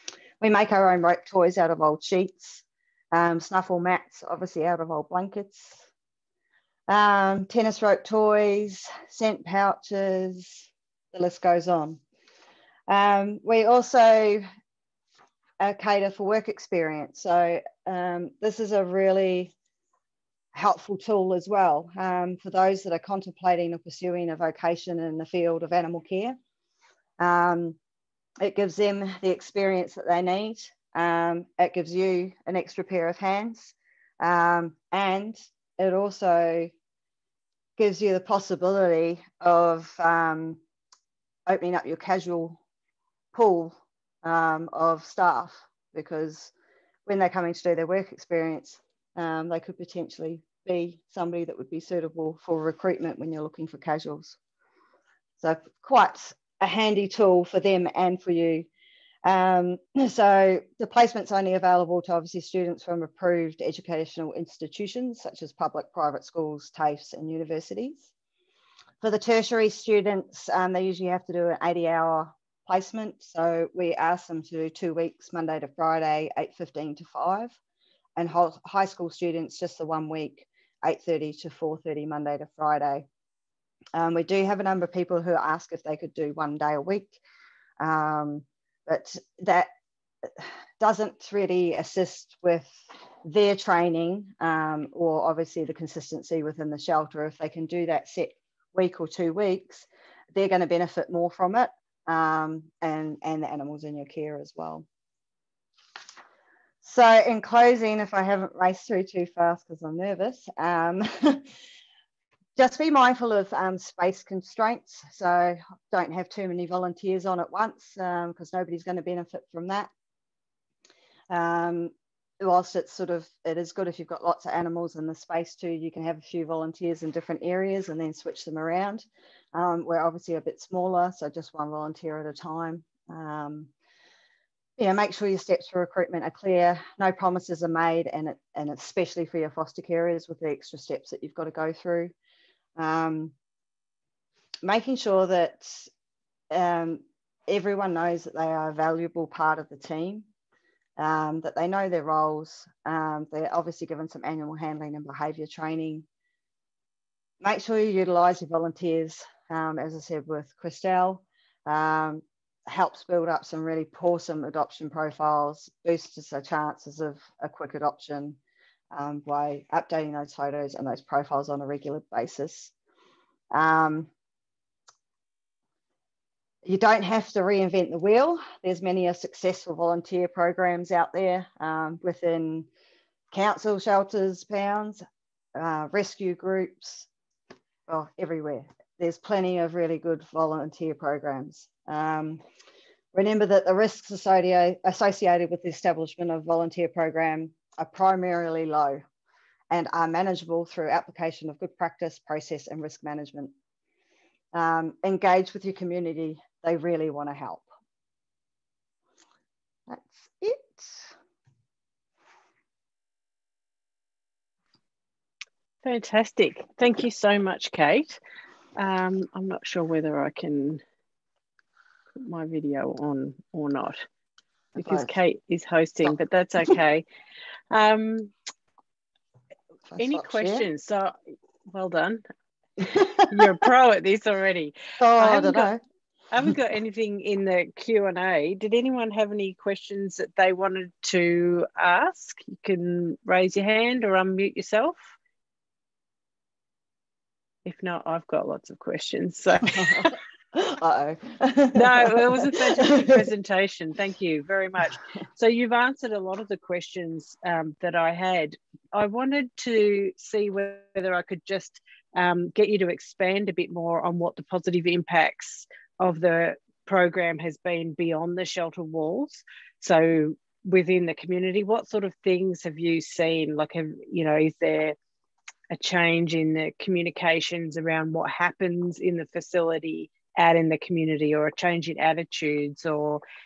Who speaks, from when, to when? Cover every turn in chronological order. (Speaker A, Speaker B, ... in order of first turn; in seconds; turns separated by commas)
Speaker A: 0.4-5.9, Speaker A: 6.9-12.0, Speaker A: 12.9-14.4, Speaker A: 15.6-19.5, Speaker A: 20.5-26.4, Speaker A: 27.2-27.8, Speaker A: 28.4-36.7, Speaker A: 37.8-40.6, Speaker A: 41.5-42.6, Speaker A: 43.3-46.5, Speaker A: 47.1-54.4, Speaker A: 55.4-58.7, Speaker A: 59.2-68.1, Speaker A: 69.0-77.6, Speaker A: 78.2-83.1, Speaker A: 84.0-87.2, Speaker A: 87.8-89.7, Speaker A: 90.3-104.9, Speaker A: 106.8-111.4, Speaker A: 112.6-119.9, Speaker A: 121.3-133.7, Speaker A: 134.8-142.1, Speaker A: 142.8-143.3, Speaker A: 144.6-145.9, Speaker A: 146.5-150.3, Speaker A: 151.0-156.1, Speaker A: 157.4-168.4, Speaker A: 168.9-172.7, Speaker A: 173.5-174.1, Speaker A: 176.7-182.7, Speaker A: 183.3-185.0, Speaker A: 185.6-187.1, Speaker A: 187.9-192.4, Speaker A: 193.1-199.0, Speaker A: 199.7-203.5, Speaker A: 204.5-207.7, Speaker A: 209.9-211.1, Speaker B: 215.8-218.2, Speaker B: 218.8-220.8, Speaker B: 222.2-224.0, Speaker A: 224.8-225.1, Speaker B: 224.8-227.0, Speaker B: 227.7-228.3, Speaker A: 229.9-230.7, Speaker B: 230.0-231.1, Speaker B: 231.7-232.2, Speaker A: 232.8-233.4, Speaker B: 233.3-235.7, Speaker A: 235.0-235.8, Speaker B: 236.3-245.2, Speaker B: 247.7-250.1, Speaker A: 249.6-253.2, Speaker B: 251.7-275.0, Speaker B: 275.7-283.2